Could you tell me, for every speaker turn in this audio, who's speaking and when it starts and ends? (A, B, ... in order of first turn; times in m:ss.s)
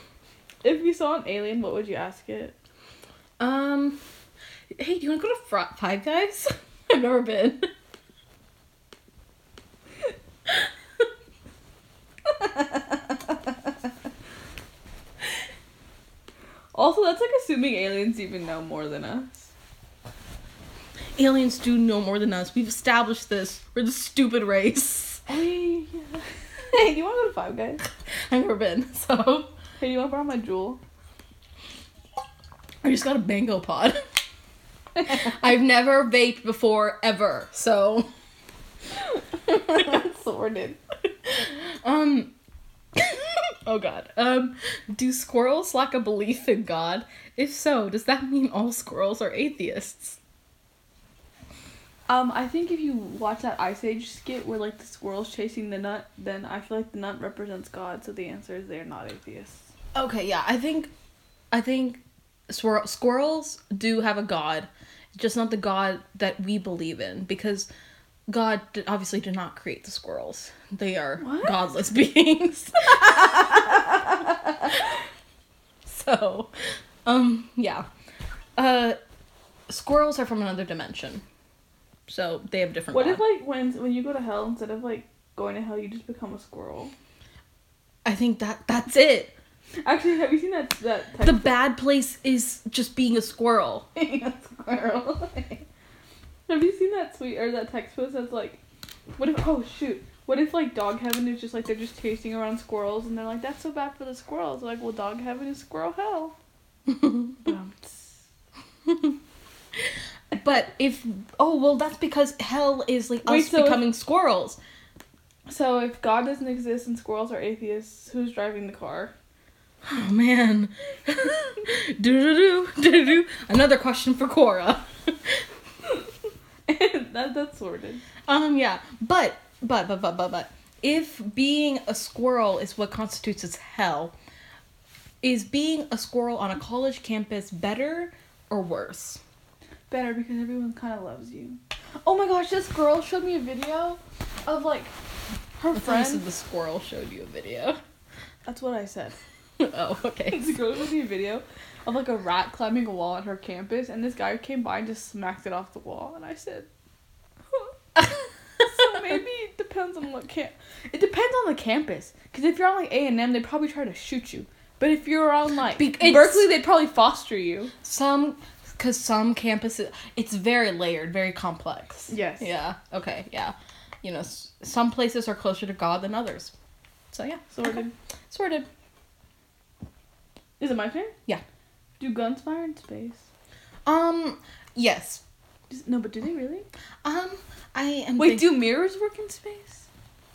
0:00.6-0:02.5 A
0:03.4-0:04.0 B
0:04.8-0:07.7 B
0:12.2-0:13.7 A
0:16.7-0:19.5 A
0:21.2-0:25.2 B
0:25.3-0:27.8 A
0:28.3-0:29.5 B
0:29.8-0:30.8 A
0:32.8-0:34.0 B
0:35.0-0:38.1 B
0:39.1-0:40.8 A
0:41.3-0:42.3 B
0:43.0-0:50.2 B
0:52.1-0:59.7 A
0:59.9-1:00.9 B
1:01.5-1:07.7 B
1:08.3-1:13.8 B
1:11.2-1:11.6 A
1:15.8-1:16.5 B
1:17.0-1:17.9 B
1:18.6-1:19.0 B
1:19.7-1:21.2 B
1:22.1-1:23.2 B
1:22.9-1:26.9 A
1:28.0-1:29.3 B
1:29.8-1:31.5 A
1:31.2-1:33.9 B
1:34.0-1:35.6 A
1:36.5-1:38.6 A
1:39.2-1:46.3 A
1:47.4-1:48.2 A
1:50.3-1:54.6 B
1:53.2-1:53.8 A
1:55.5-1:59.1 A
1:59.8-2:05.4 B
2:06.7-2:08.0 A
2:08.3-2:14.1 B
2:15.2-2:19.2 B
2:19.9-2:24.9 A
2:25.6-2:26.2 A
2:25.7-2:27.8 B
2:28.4-2:29.2 A
2:29.6-2:30.6 B
2:30.3-2:36.7 A
2:37.5-2:47.7 A
2:45.7-2:46.5 B
2:47.8-2:56.5 B
2:52.1-2:52.5 A
2:57.1-2:58.6 B
2:57.5-2:57.9 A
3:00.6-3:01.1 A
3:02.0-3:03.2 A
3:03.8-3:05.2 B
3:05.7-3:06.6 A
3:07.0-3:08.6 B
3:08.2-3:09.9 A